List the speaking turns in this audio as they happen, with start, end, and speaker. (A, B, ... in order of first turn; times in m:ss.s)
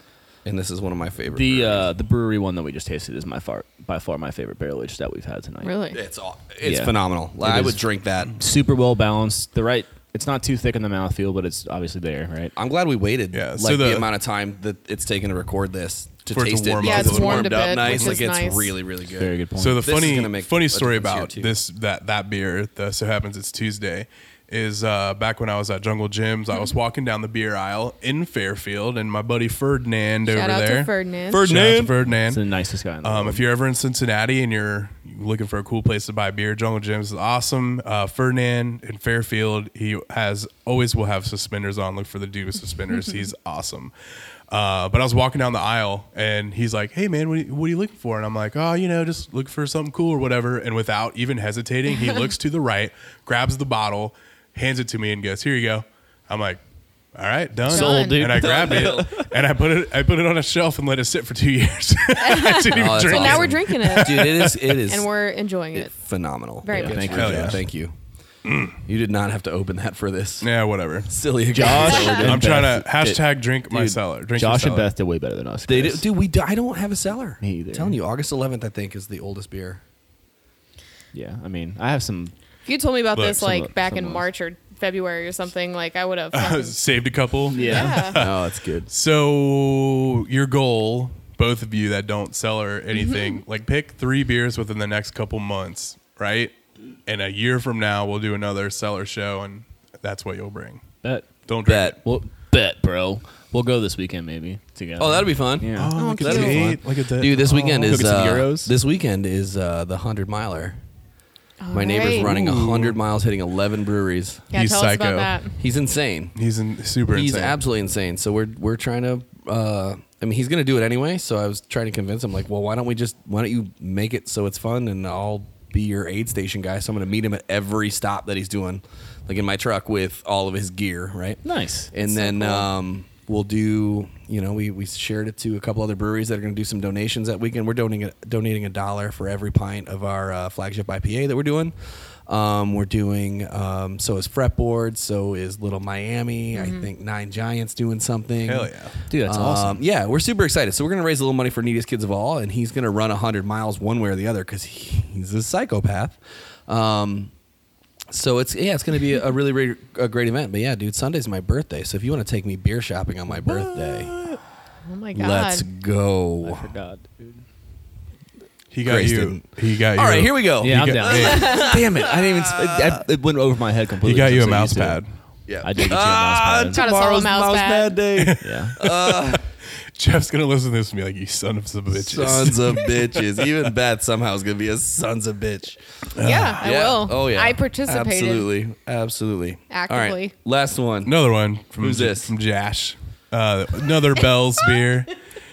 0:00.4-0:01.9 A
0:01.3-0:05.7 B
0:05.6-0:06.0 C
0:05.9-0:08.3 A
0:06.6-0:12.5 B
0:12.6-0:21.5 A
0:13.3-0:14.1 D
0:16.3-0:18.2 D
0:16.8-0:18.7 C
0:19.2-0:19.9 B
0:19.6-0:32.4 D
0:30.3-0:31.4 C
0:31.3-0:31.9 A
0:32.3-0:33.4 B
0:33.0-0:43.9 D
0:44.5-0:56.6 D
0:57.1-1:04.8 D
0:57.7-0:59.3 B
0:57.7-0:58.2 C
0:58.3-0:59.2 A
1:02.2-1:05.9 C
1:02.7-1:05.1 A
1:05.7-1:07.9 A
1:06.6-1:07.2 C
1:06.7-1:07.6 B
1:07.1-1:07.6 D
1:08.4-1:08.8 D
1:08.8-1:10.5 A
1:10.4-1:11.1 D
1:11.0-1:14.0 A
1:11.5-1:13.2 B
1:11.6-1:12.2 C
1:12.2-1:14.9 D
1:14.4-1:16.1 B
1:15.7-1:19.8 A
1:17.4-1:18.0 B
1:21.1-1:22.3 B
1:22.6-1:26.8 C
1:23.1-1:23.4 D
1:23.2-1:24.2 B
1:26.3-1:36.5 D
1:27.5-1:28.1 B
1:27.5-1:28.2 C
1:28.2-1:28.9 A
1:32.9-1:33.4 C
1:37.0-1:40.8 D
1:41.0-1:41.3 B
1:41.4-1:42.0 D
1:41.6-1:42.0 A
1:42.0-1:46.8 B
1:45.0-1:50.8 A
1:45.8-1:48.1 D
1:46.0-1:46.8 C
1:47.8-1:48.7 B
1:51.6-1:52.3 C
1:51.7-1:54.4 A
1:52.0-1:53.0 D
1:54.5-1:55.6 C
1:54.5-1:55.4 D
1:55.6-1:56.3 A
1:56.3-1:57.6 D
1:57.1-2:28.7 A
2:11.4-2:11.9 B
2:12.0-2:12.7 C
2:26.5-2:26.9 C
2:28.4-2:28.9 D
2:29.1-2:29.8 B
2:29.2-2:37.3 A
2:38.1-2:44.2 A
2:44.8-2:45.6 C
2:45.1-2:46.7 A
2:46.4-2:47.4 B
2:48.7-2:51.4 D
2:48.8-2:53.0 A
2:50.6-2:55.0 B
2:51.1-2:51.8 C
2:54.0-2:55.1 D
2:55.5-2:59.4 A
2:55.6-2:56.8 B
2:56.7-2:58.0 C
2:58.2-2:59.4 D
2:58.4-2:58.8 B
2:59.9-3:03.2 D
3:01.9-3:05.8 A
3:06.1-3:06.7 D
3:06.2-3:08.5 C
3:06.6-3:11.2 A
3:09.7-3:10.3 C
3:11.0-3:15.2 D
3:11.8-3:12.3 A